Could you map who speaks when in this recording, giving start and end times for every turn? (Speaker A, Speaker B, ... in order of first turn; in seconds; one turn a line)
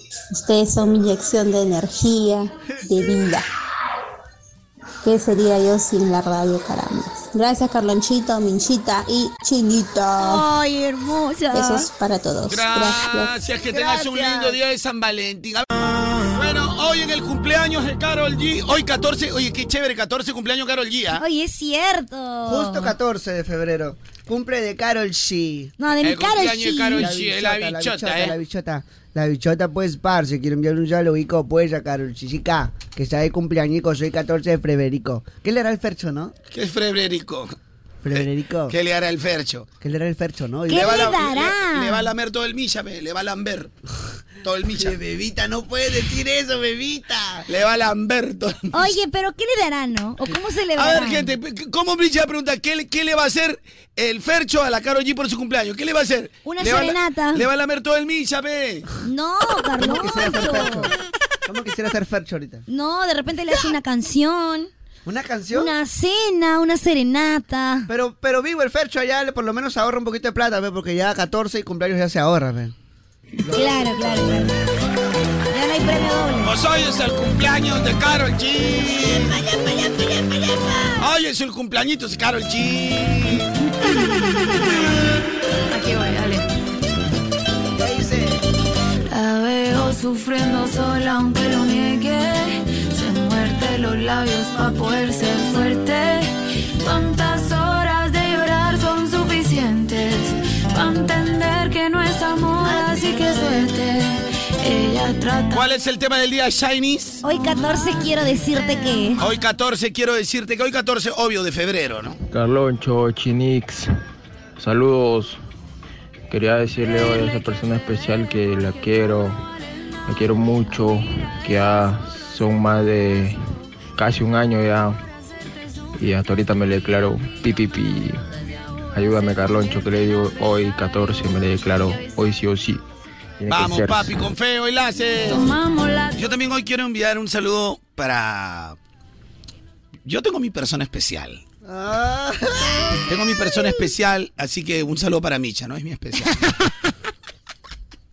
Speaker A: 0.3-3.5
Speaker A: 5.0-10.5
Speaker B: 10.2-11.9
Speaker A: 11.5-13.3
Speaker C: 12.5-15.7
Speaker D: 13.7-14.6
Speaker C: 16.3-21.2
Speaker B: 21.2-22.9
Speaker D: 22.4-25.7
Speaker B: 25.8-27.1
Speaker C: 26.0-28.4
Speaker D: 26.9-36.3
Speaker C: 36.5-37.5
Speaker D: 38.0-38.8
Speaker C: 38.1-39.7
Speaker D: 39.8-41.2
Speaker B: 40.7-42.1
Speaker C: 40.7-43.7
Speaker C: 44.4-45.0
Speaker D: 44.7-47.5
Speaker C: 47.5-48.9
Speaker B: 48.7-51.3
Speaker C: 50.8-58.9
Speaker B: 56.5-57.4
Speaker B: 59.0-60.9
Speaker D: 59.8-62.6
Speaker B: 62.7-64.7
Speaker D: 65.0-65.7
Speaker B: 65.5-67.9
Speaker D: 67.9-72.7
Speaker D: 73.4-73.8
Speaker B: 73.5-74.6
Speaker B: 75.5-76.6
Speaker C: 76.4-79.4
Speaker B: 79.0-81.0
Speaker C: 81.0-83.5
Speaker E: 85.7-86.5
Speaker D: 87.8-88.4
Speaker E: 89.1-105.7
Speaker D: 102.7-103.5
Speaker C: 105.5-107.2
Speaker B: 107.2-109.2
Speaker C: 109.2-112.2
Speaker F: 112.3-113.9
Speaker F: 114.6-115.4
Speaker F: 116.3-119.4
Speaker F: 120.1-123.4
Speaker F: 124.0-125.0
Speaker F: 126.0-128.2
Speaker F: 128.9-132.8
Speaker F: 133.4-134.2
Speaker C: 133.5-135.5
Speaker E: 135.3-136.3
Speaker C: 136.2-138.8
Speaker C: 140.1-141.4
Speaker D: 141.7-143.7
Speaker C: 143.1-146.4